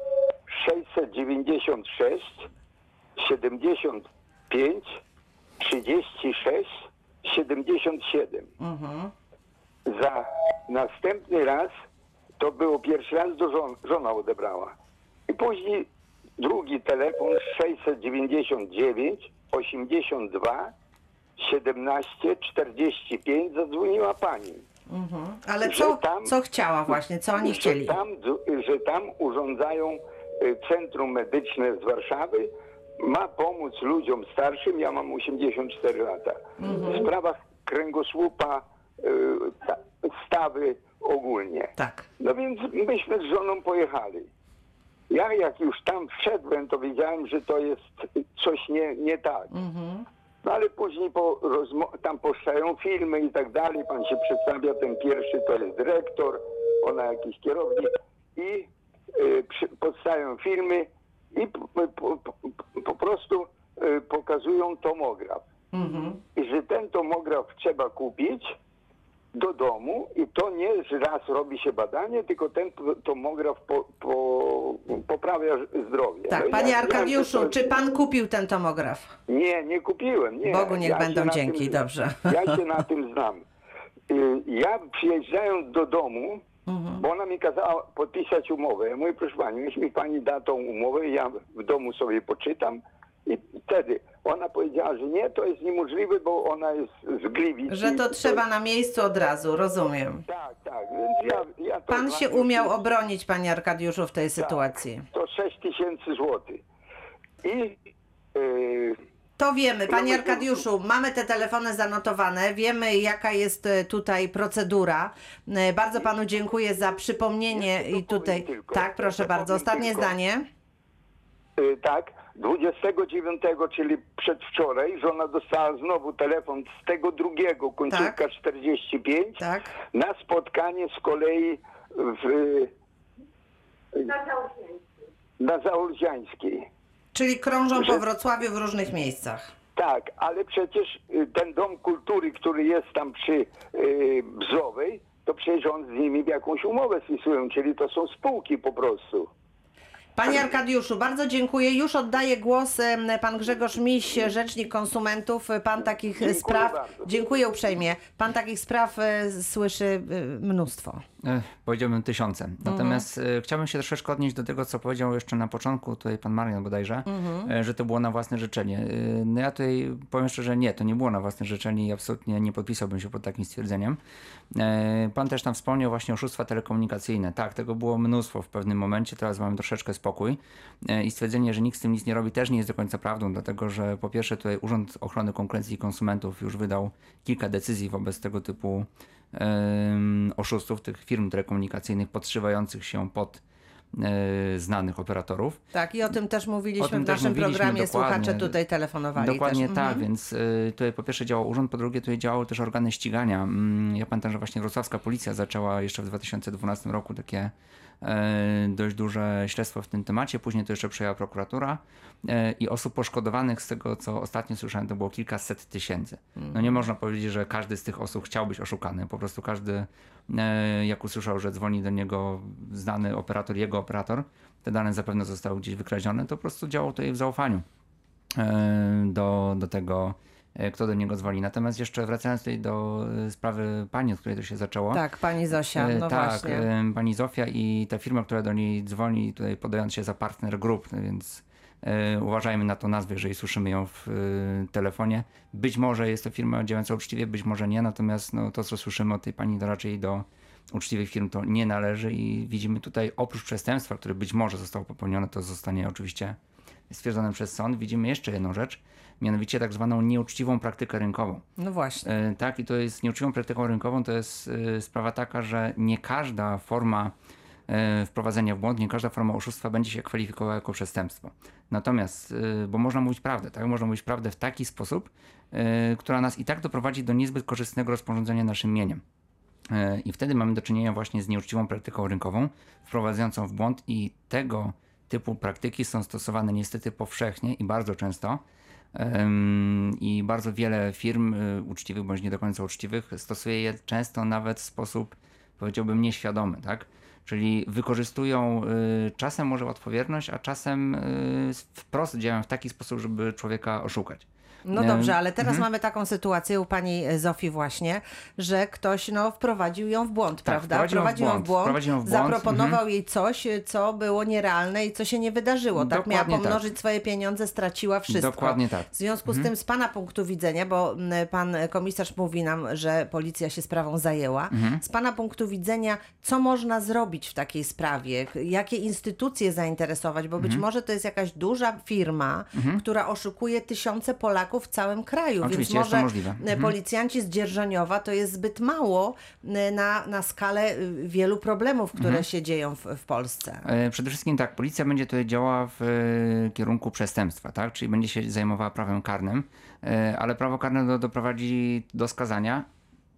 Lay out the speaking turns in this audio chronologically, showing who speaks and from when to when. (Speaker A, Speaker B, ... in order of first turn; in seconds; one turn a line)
Speaker A: 0.5-2.5
Speaker A: 3.2-5.0
Speaker A: 5.6-6.7
Speaker A: 7.2-8.5
Speaker B: 8.6-9.1
Speaker A: 9.9-11.7
Speaker A: 12.4-14.7
Speaker A: 15.3-15.9
Speaker A: 16.4-20.7
Speaker A: 21.4-24.6
Speaker B: 24.9-27.9
Speaker A: 25.6-26.3
Speaker A: 27.4-32.5
Speaker A: 33.0-44.3
Speaker B: 36.6-37.1
Speaker B: 41.8-42.1
Speaker A: 45.1-49.5
Speaker B: 49.5-50.0
Speaker A: 50.4-65.4
Speaker B: 65.7-66.2
Speaker A: 66.3-68.5
Speaker A: 69.3-77.6
Speaker B: 76.3-79.1
Speaker A: 79.3-83.4
Speaker B: 80.5-82.6
Speaker A: 84.1-86.4
Speaker B: 86.7-87.0
Speaker A: 87.0-98.4
Speaker B: 97.7-100.2
Speaker A: 100.3-102.8
Speaker B: 101.9-105.0
Speaker A: 104.4-106.6
Speaker A: 107.4-109.0
Speaker B: 109.4-120.4
Speaker A: 109.9-110.6
Speaker A: 117.5-120.1
Speaker A: 121.6-132.7
Speaker B: 127.9-128.2
Speaker B: 129.4-129.7
Speaker A: 133.9-134.6
Speaker A: 135.4-136.7
Speaker B: 137.1-139.5
Speaker A: 139.8-149.3
Speaker B: 150.2-161.0
Speaker A: 156.2-157.2
Speaker C: 161.2-174.0
Speaker B: 162.6-163.0
Speaker B: 167.1-167.5
Speaker C: 174.5-193.4
Speaker C: 193.9-195.6
Speaker B: 195.7-200.0
Speaker C: 196.8-198.5
Speaker C: 199.1-227.6
Speaker B: 216.4-216.8
Speaker C: 228.3-235.0
Speaker B: 234.9-236.7
Speaker C: 235.7-256.4
Speaker C: 256.9-261.4
Speaker B: 261.6-262.1
Speaker C: 262.0-267.1
Speaker C: 267.7-279.0
Speaker C: 279.7-288.4
Speaker C: 288.9-305.6
Speaker B: 304.6-343.6
Speaker C: 310.4-312.8
Speaker C: 315.7-316.6
Speaker C: 318.1-319.5
Speaker C: 324.5-324.8
Speaker C: 330.4-330.6
Speaker C: 332.5-332.8
Speaker C: 335.4-336.7
Speaker C: 341.9-342.2
Speaker C: 343.6-352.7